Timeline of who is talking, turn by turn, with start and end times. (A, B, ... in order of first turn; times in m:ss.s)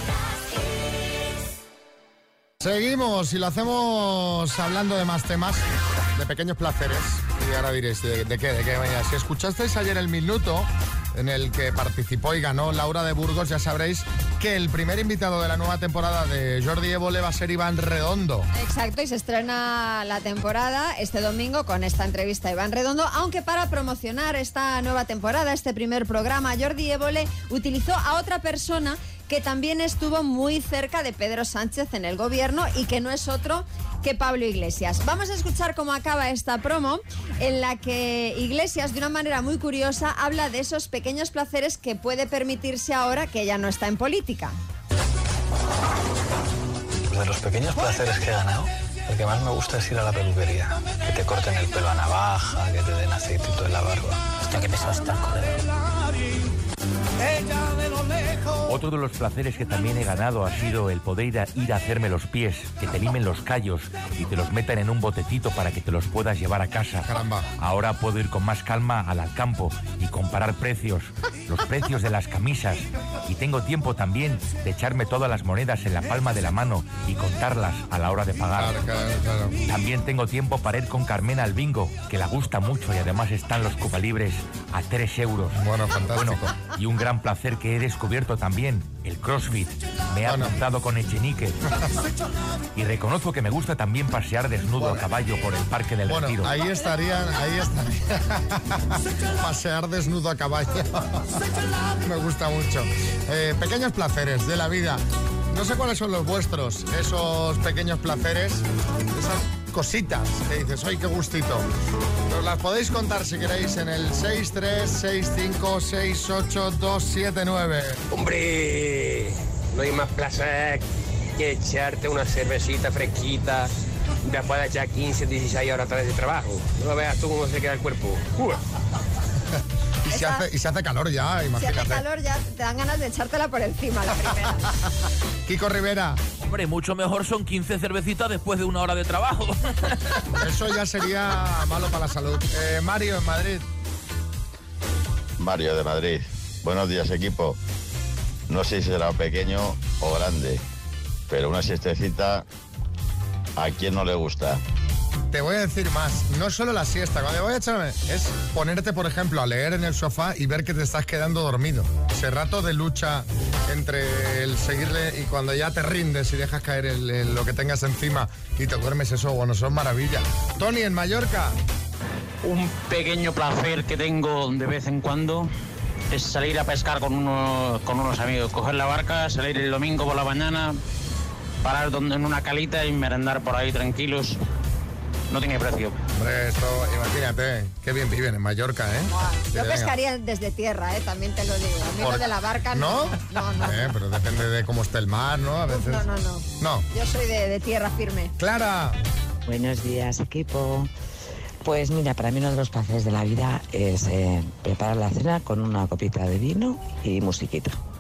0:02.6-0:18.5 A
0:18.5-0:44.6 B
0:47.1-0:55.7 C
0:58.7-1:18.8 D
1:07.1-1:07.5 A
1:18.6-1:19.6 A
1:19.7-1:25.6 D
1:25.6-1:26.5 A
1:26.1-1:31.6 D
1:30.2-1:30.6 A
1:32.8-1:36.5 D
1:34.8-1:35.0 A
1:36.1-1:41.3 A
1:42.0-1:51.7 A
1:52.3-1:58.0 A
1:58.1-2:00.8 E
2:01.4-2:03.7 E
2:04.2-2:08.6 E
2:10.1-2:12.0 A
2:10.1-2:10.4 B
2:11.6-2:14.7 B
2:15.5-2:16.2 A
2:16.4-2:19.5 F
2:20.4-2:23.6 A
2:25.4-2:27.6 G
2:28.5-2:30.6 G
2:31.3-2:32.5 G
2:33.6-2:34.6 G
2:35.3-2:51.6 A
2:52.4-2:55.5 H
2:56.1-3:00.8 H
3:01.6-3:04.4 H
3:05.3-3:06.0 H
3:06.2-3:09.9 A
3:09.1-3:13.9 B
3:12.0-3:16.1 A
3:15.7-3:18.3 B
3:16.6-3:16.9 A
3:18.4-3:19.0 A
3:19.5-3:20.9 I
3:21.6-3:27.8 I